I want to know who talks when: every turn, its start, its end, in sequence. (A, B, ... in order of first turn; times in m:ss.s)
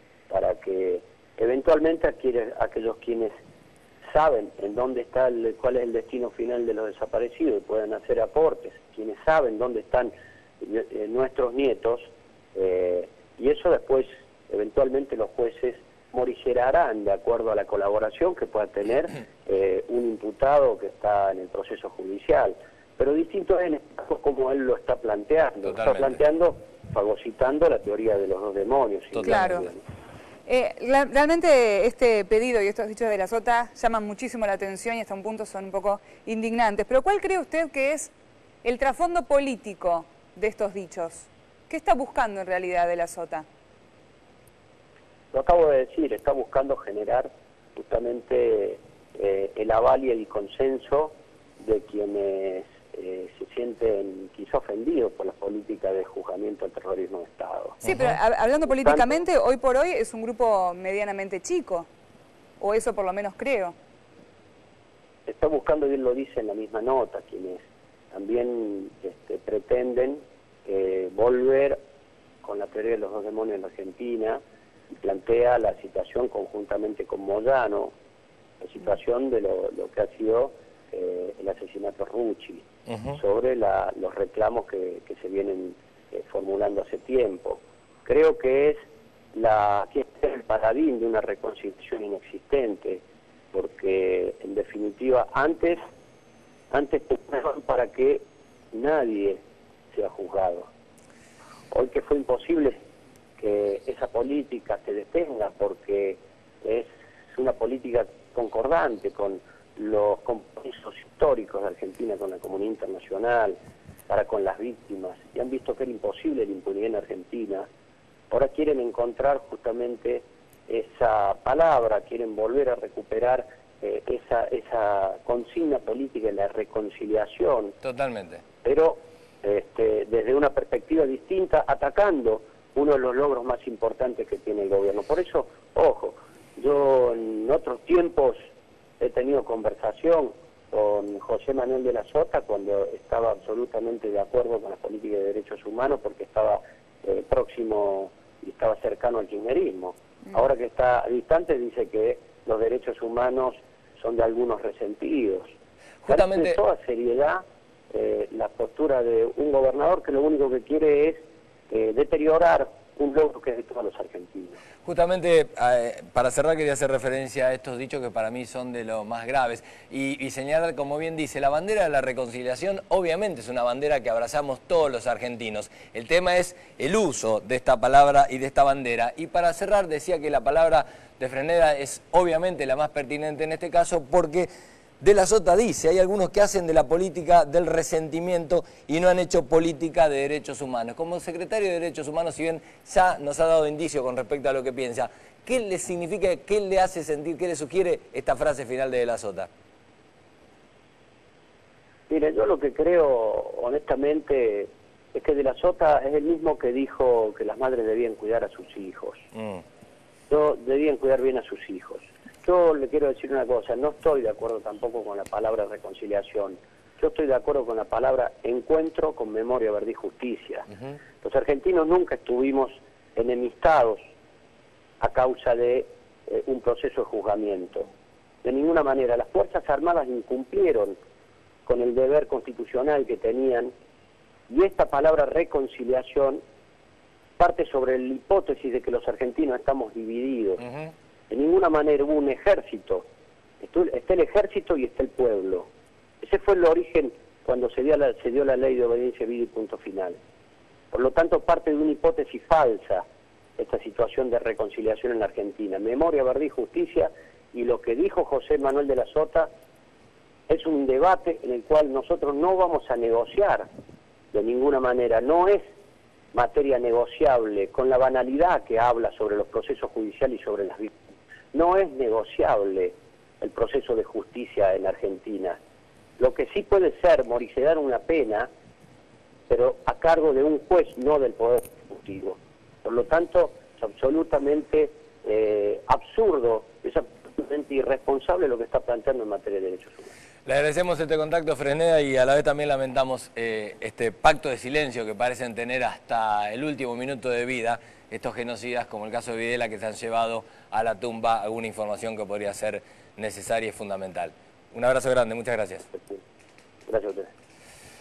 0:00.3-0:03.3 A
0:04.1-0:29.8 A
0:25.6-0:26.2 B
0:29.1-0:29.7 B
0:29.2-0:29.7 C
0:30.5-0:38.1 C
0:38.6-0:43.5 C
0:45.3-0:57.8 A
0:57.8-0:58.2 B
0:57.8-1:01.9 C
0:58.7-0:59.2 A
1:02.6-1:03.8 C
1:05.3-1:11.8 A
1:12.4-1:14.4 A
1:15.0-1:18.0 A
1:18.6-1:28.8 A
1:22.9-1:23.2 B
1:29.3-1:35.8 A
1:36.7-1:39.4 A
1:39.9-1:40.7 A
1:41.7-1:42.8 A
1:43.4-1:53.6 A
1:54.1-1:57.7 A
1:58.3-2:07.8 A
2:07.8-2:08.4 B
2:08.6-2:18.4 A
2:19.0-2:35.5 A
2:36.0-2:36.6 B
2:36.1-2:44.6 A
2:44.8-3:04.5 B
3:05.0-3:19.5 B
3:22.1-3:29.2 A
3:29.4-3:29.6 B
3:30.3-3:40.7 A
3:41.2-3:44.0 A
3:45.0-3:47.9 A
3:48.4-3:51.0 A
3:51.6-3:53.7 A
3:54.5-3:56.4 A
3:57.4-4:00.6 A
4:00.6-4:00.9 B
4:01.3-4:03.1 A
4:03.6-4:05.7 A
4:06.2-4:10.2 A
4:10.9-4:13.0 A
4:13.6-4:19.5 A
4:20.5-4:23.7 A
4:24.3-4:25.7 A
4:26.3-4:31.0 A
4:31.5-4:35.6 A
4:36.2-4:38.5 A
4:39.5-4:50.1 A
4:50.4-5:05.9 B
5:06.9-5:07.3 A